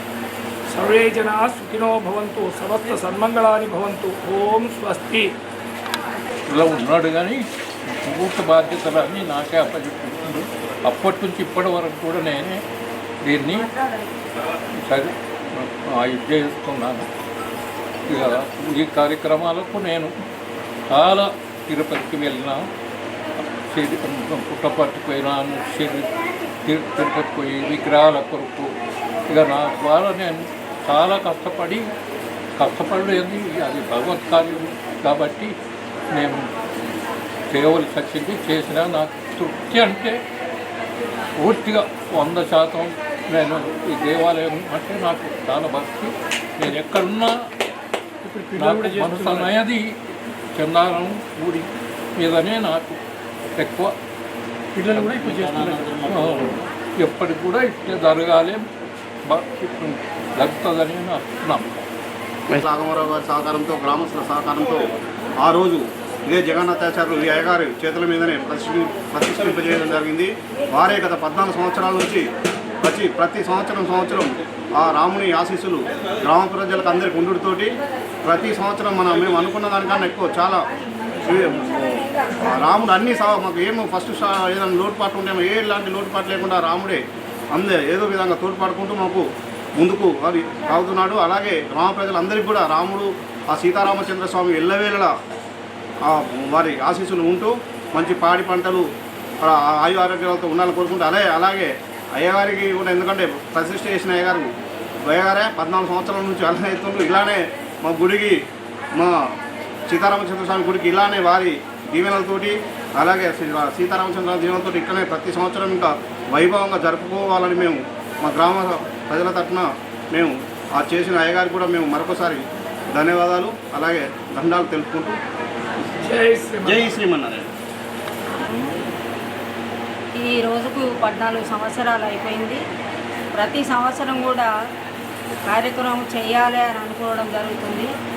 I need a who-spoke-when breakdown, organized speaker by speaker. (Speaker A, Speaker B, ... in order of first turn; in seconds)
Speaker A: 0.8-5.3, 126.1-126.8
Speaker B: 6.5-12.6, 13.2-13.7, 14.9-17.1, 18.1-20.1, 20.9-22.6, 23.4-26.1, 26.6-28.7, 29.3-31.9, 32.6-35.5, 36.1-36.5, 37.5-40.2, 41.4-47.4, 48.3-49.9, 50.5-53.0, 53.5-54.0, 54.8-58.6, 59.3-61.7
Speaker C: 62.5-64.9, 65.4-72.3, 72.8-77.7, 78.2-80.7, 81.2-87.0, 87.5-89.2, 89.8-95.1, 96.1-98.9, 99.4-104.5, 105.1-108.4, 109.9-125.2, 126.7-127.5
Speaker D: 130.2-132.6, 133.3-134.5, 135.5-137.9